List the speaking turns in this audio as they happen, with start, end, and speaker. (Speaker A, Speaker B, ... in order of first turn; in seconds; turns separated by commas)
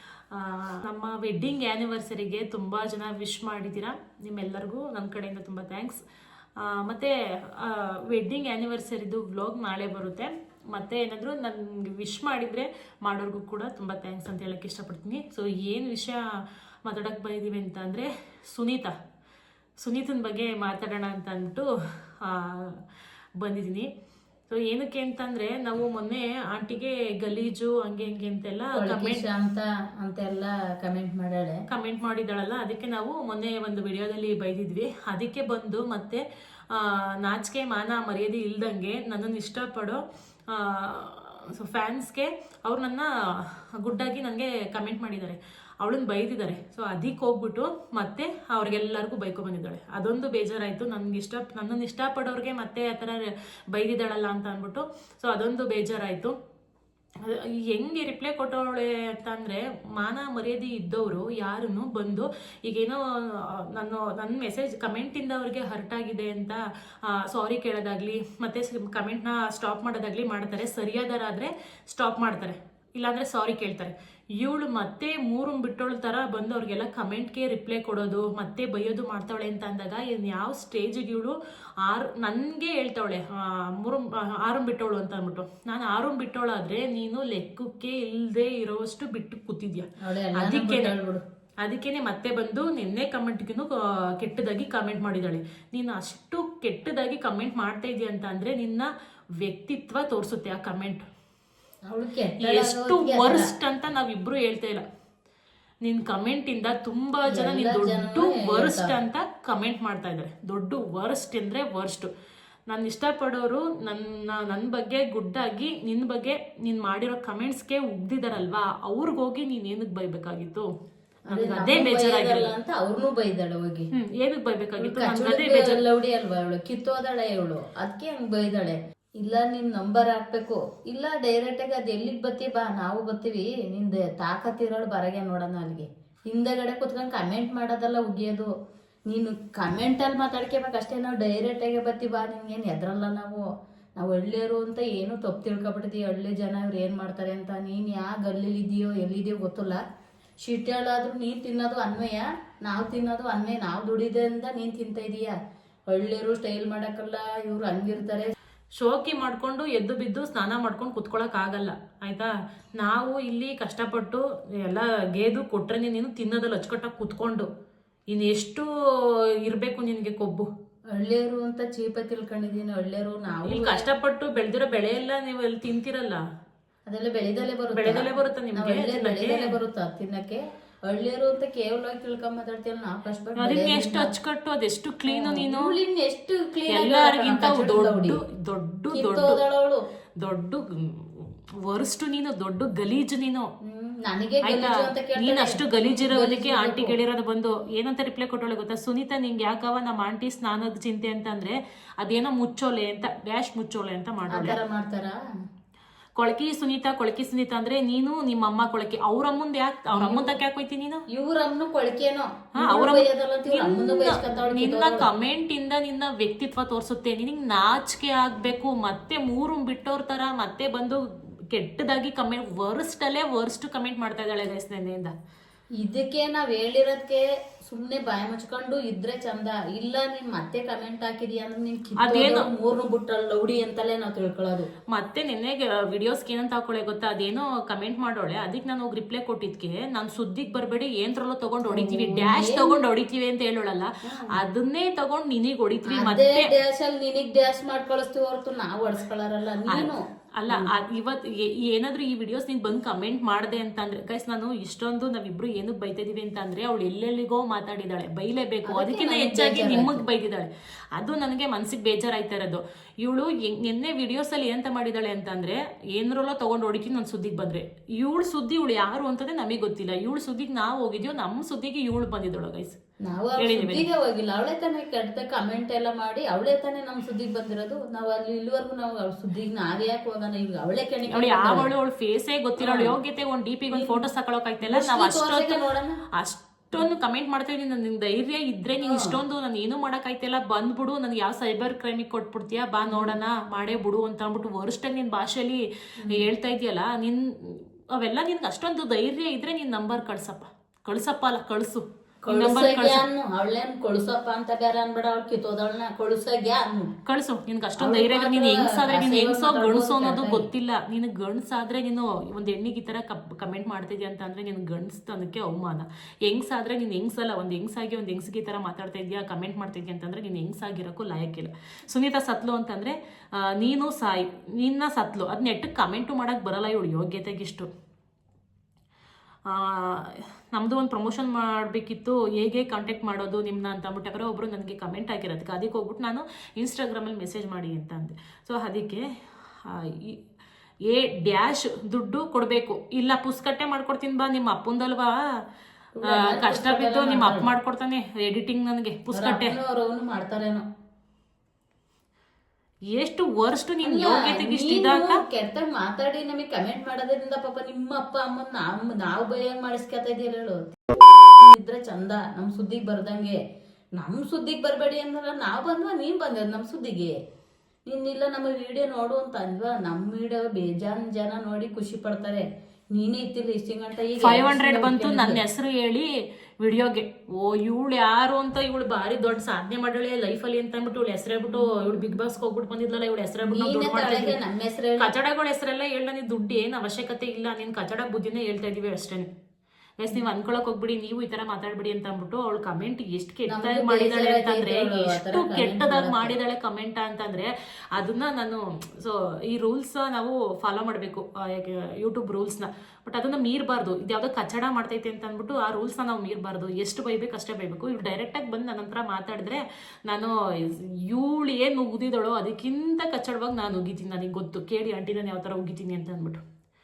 Speaker A: 0.3-6.0, Speaker A: 6.6-16.2, Speaker A: 16.9-18.9, Speaker A: 19.8-21.7, Speaker A: 22.2-22.8, Speaker A: 23.4-23.9, Speaker A: 24.5-29.2, Speaker B: 28.8-31.6, Speaker A: 31.7-56.4, Speaker A: 57.2-90.9, Speaker B: 90.0-91.2, Speaker A: 91.6-98.9, Speaker A: 99.4-101.0, Speaker B: 101.9-103.5, Speaker A: 102.4-104.8, Speaker A: 105.8-112.1, Speaker B: 107.3-109.0, Speaker A: 112.7-120.7, Speaker A: 121.2-122.5, Speaker B: 121.3-123.9, Speaker A: 123.9-125.8, Speaker B: 124.8-138.5, Speaker B: 139.1-143.4, Speaker B: 144.0-149.8, Speaker B: 150.4-155.3, Speaker B: 155.9-158.3, Speaker A: 158.8-167.5, Speaker A: 168.1-168.7, Speaker A: 169.4-170.5, Speaker B: 170.9-173.9, Speaker A: 173.4-176.2, Speaker B: 176.9-184.1, Speaker A: 177.7-179.5, Speaker A: 183.4-185.7, Speaker B: 185.1-188.2, Speaker A: 186.7-189.4, Speaker B: 188.9-189.8, Speaker A: 190.2-193.4, Speaker B: 193.7-197.0, Speaker A: 194.4-204.6, Speaker B: 204.3-205.2, Speaker A: 206.2-211.0, Speaker B: 209.9-210.4, Speaker B: 211.1-215.1, Speaker A: 212.6-225.1, Speaker B: 225.8-234.7, Speaker A: 232.0-232.5, Speaker A: 234.9-246.5, Speaker B: 241.7-242.9, Speaker B: 244.0-244.4, Speaker B: 245.9-250.7, Speaker A: 249.7-272.8, Speaker B: 258.7-260.1, Speaker B: 273.0-281.7, Speaker A: 273.4-273.8, Speaker A: 281.1-285.6, Speaker B: 282.6-282.9, Speaker B: 283.7-284.0, Speaker B: 284.6-286.0, Speaker A: 286.1-303.0, Speaker B: 288.8-289.1, Speaker B: 292.9-293.2, Speaker B: 296.0-296.3, Speaker B: 302.2-306.9, Speaker A: 307.1-327.7, Speaker B: 307.8-310.5, Speaker A: 329.5-339.0, Speaker A: 339.6-340.2, Speaker A: 340.9-345.1, Speaker B: 346.0-347.5, Speaker A: 346.1-349.6, Speaker B: 349.1-350.6, Speaker A: 352.9-355.2, Speaker B: 353.8-363.4, Speaker B: 364.0-367.1, Speaker B: 367.9-375.4, Speaker A: 374.2-376.1, Speaker A: 376.6-384.4, Speaker B: 381.5-382.1, Speaker B: 383.5-385.1, Speaker A: 385.0-389.3, Speaker A: 390.0-416.4, Speaker B: 393.5-396.4